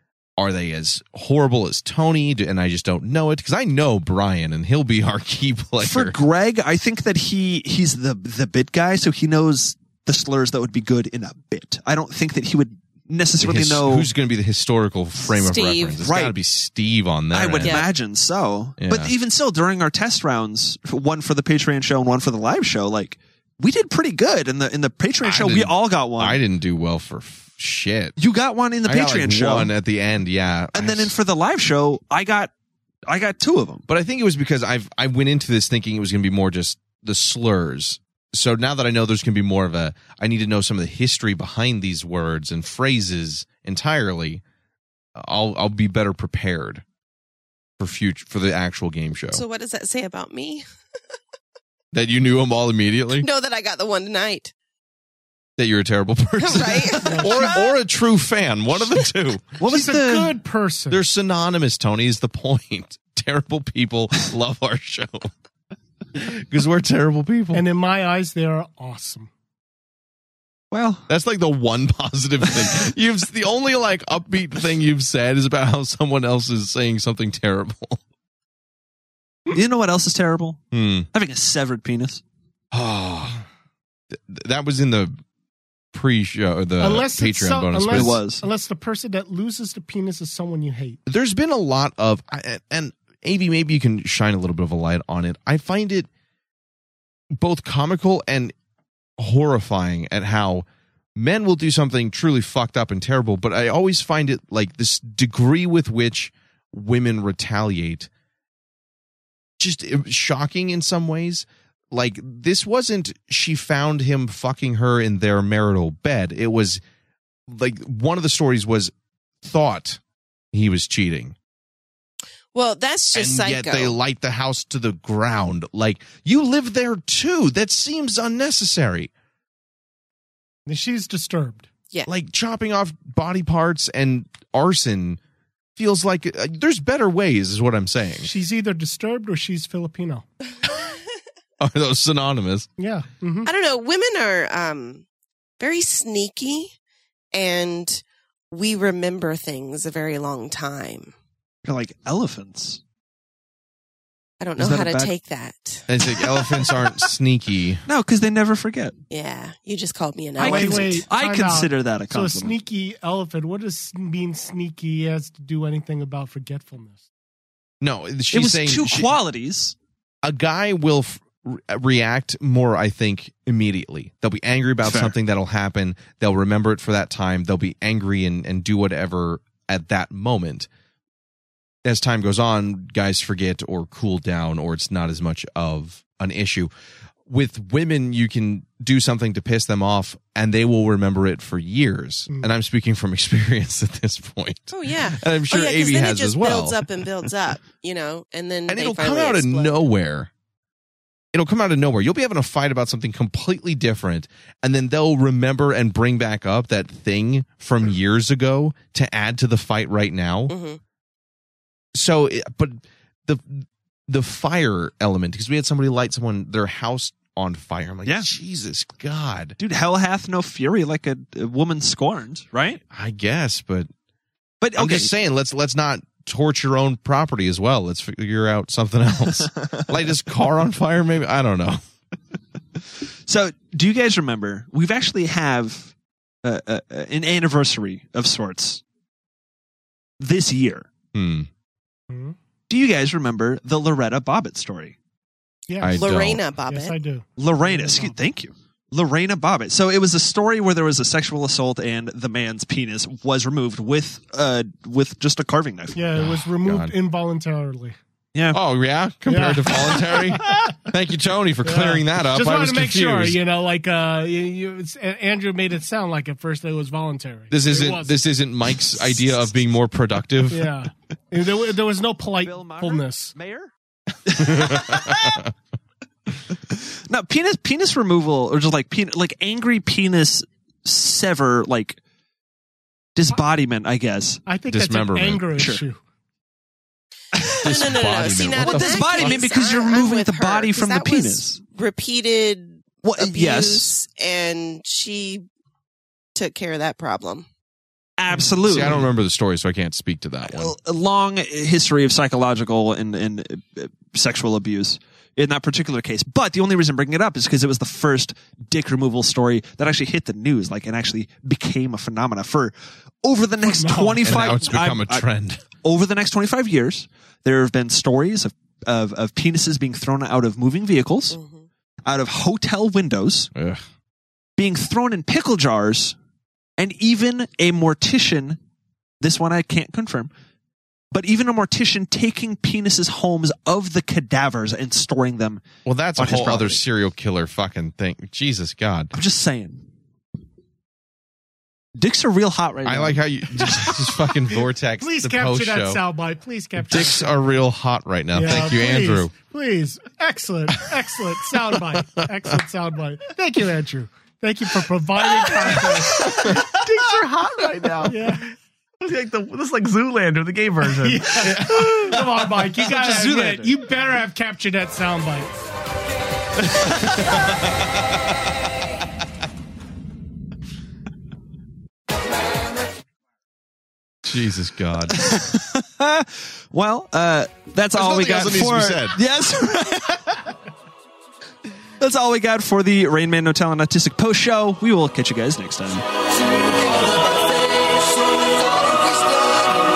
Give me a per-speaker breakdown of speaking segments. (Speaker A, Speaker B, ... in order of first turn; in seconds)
Speaker A: 0.4-6.2, 13.4-17.8, 18.8-19.1, 25.2-28.2, 28.9-31.1, 33.9-44.4, 45.2-46.8, 47.8-49.4, 51.9-53.3, 55.6-59.6, 60.9-65.3, 66.2-67.7, 71.1-78.0, 80.7-81.1, 82.7-83.4, 84.1-85.2, 85.9-88.2, 91.1-96.1, 97.3-98.5, 99.2-108.1, 109.6-116.8, 117.5-120.0, 120.5-121.3, 123.1-129.1, 132.1-135.2, 135.8-138.3, 141.6-142.7, 155.9-157.8, 167.8-169.1, 170.2-180.7, 181.8-186.7, 187.3-196.8, 198.7-200.3, 201.3-210.5, 211.9-219.6, 222.9-223.9, 224.8-231.8, 241.1-241.5, 245.8-246.5, 256.2-256.9, 258.5-263.4, 267.5-270.7, 274.4-275.5, 284.7-285.5, 287.6-289.5, 298.7-300.8, 314.2-315.6, 323.6-323.8, 335.9-339.1, 342.9-346.0, 346.8-349.3, 361.5-361.9, 366.8-367.6, 374.2-375.2, 377.9-379.2
Speaker B: 5.8-14.1, 16.0-16.4, 17.3-26.4, 28.2-29.7, 30.7-32.5, 33.1-33.8, 59.6-60.4, 70.7-71.1, 79.5-80.6, 81.1-82.2, 87.8-88.5, 151.7-152.8, 154.6-155.1, 157.9-159.0, 160.4-162.6, 168.3-169.8, 174.8-175.2, 219.6-222.8, 224.6-225.1, 233.3-235.9, 236.4-238.8, 240.2-240.9, 242.7-244.9, 247.4-256.0, 272.4-273.7, 274.3-275.4, 276.7-282.0, 283.2-284.4, 285.6-285.8, 287.4-288.0, 288.5-291.6, 293.0-293.9, 298.2-299.1, 300.5-312.7, 313.2-315.2, 315.8-321.4, 322.1-323.5, 324.6-326.2, 326.8-328.6, 329.2-330.3, 331.1-335.6, 336.2-336.8, 339.1-339.8, 342.0-343.7, 363.2-363.6, 375.2-380.4, 382.0-386.1
Speaker C: 15.3-16.0, 17.6-17.9, 49.3-50.7, 53.2-54.5, 56.4-57.7, 122.5-124.0, 143.4-145.1, 145.6-146.7, 147.3-151.1, 154.4-155.8, 159.1-161.1, 194.7-199.8, 210.5-210.8, 245.9-247.0, 287.6-295.5, 296.4-297.5, 321.3-321.7
Speaker D: 57.0-57.6, 59.6-61.0, 67.5-69.3, 86.8-91.0, 130.7-131.7, 138.2-140.3, 142.8-143.5, 160.4-167.0, 242.1-242.4, 245.7-246.1, 246.7-248.2, 255.9-258.0, 259.3-260.8, 261.6-268.2, 270.5-273.3, 284.5-286.0, 298.3-299.0, 313.6-314.4, 345.0-347.3, 348.3-356.6, 358.1-358.5, 361.0-365.5
Speaker E: 356.6-358.5, 359.0-361.4